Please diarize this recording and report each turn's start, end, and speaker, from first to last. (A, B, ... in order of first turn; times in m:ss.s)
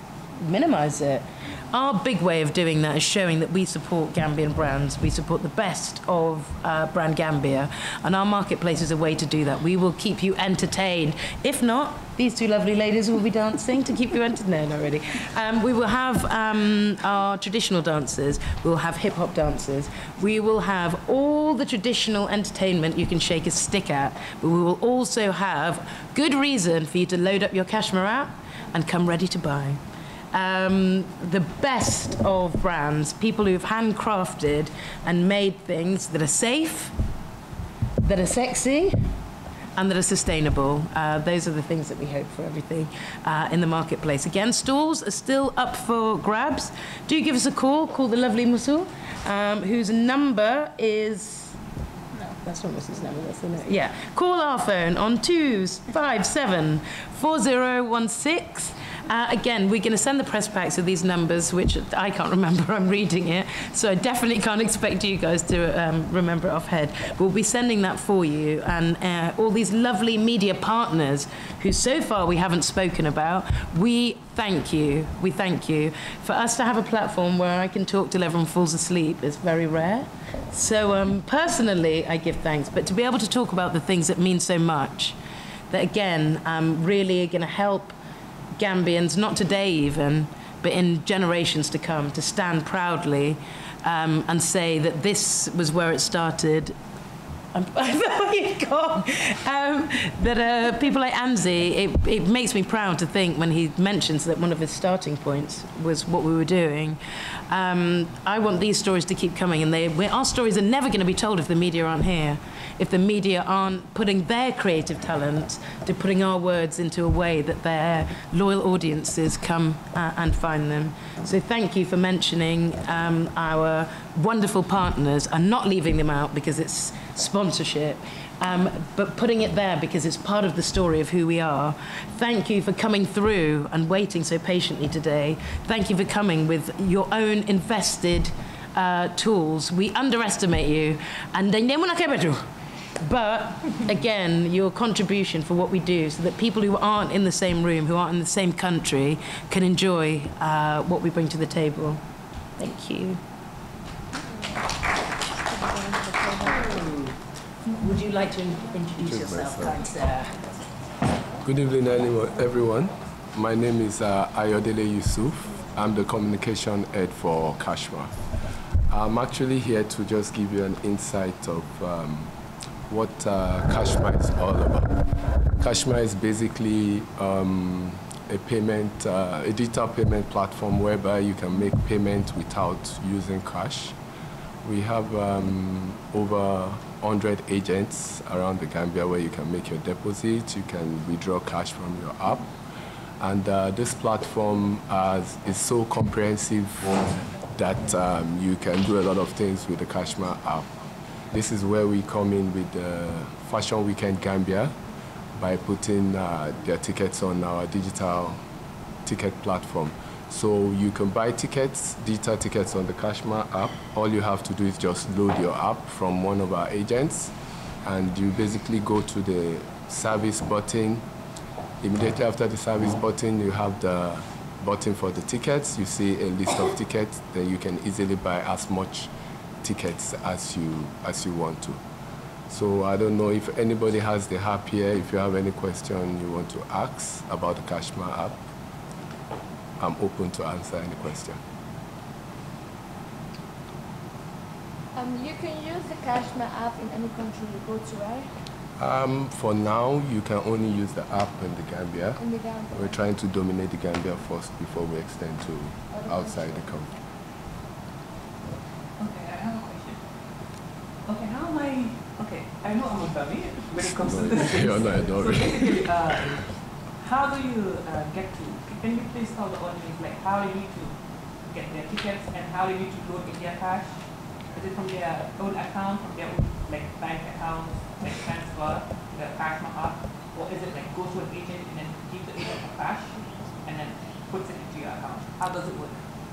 0:00.4-0:29.8 A
0:30.3-0:36.9 A
0:38.0-0:39.1 A
0:39.8-0:51.6 A
0:52.3-1:25.2 A
1:25.7-1:28.0 A
1:28.6-1:36.8 A
1:37.5-2:22.4 A
2:23.0-2:32.0 A
2:32.6-2:33.2 A
2:35.4-2:36.6 B
2:36.4-2:37.2 A
2:37.7-2:40.5 A
2:39.0-2:39.8 C
2:41.4-2:48.2 C
2:48.9-2:52.3 C
2:52.9-3:04.0 C
3:04.6-3:12.5 C
3:13.2-3:20.7 C
3:21.3-3:24.8 C
3:25.4-3:28.4 C
3:29.0-3:37.3 C
3:37.8-3:41.0 C
3:41.8-3:49.1 C
3:49.6-3:51.8 C
3:52.5-3:58.4 C
3:59.8-4:01.4 C
4:04.9-4:08.3 B
4:08.8-4:12.2 C
4:12.2-4:13.0 B
4:12.7-4:16.9 C
4:15.9-4:16.7 B
4:19.0-4:20.0 D
4:21.0-4:30.9 D
4:24.0-4:26.4 C
4:31.4-4:34.0 D
4:34.5-4:46.0 D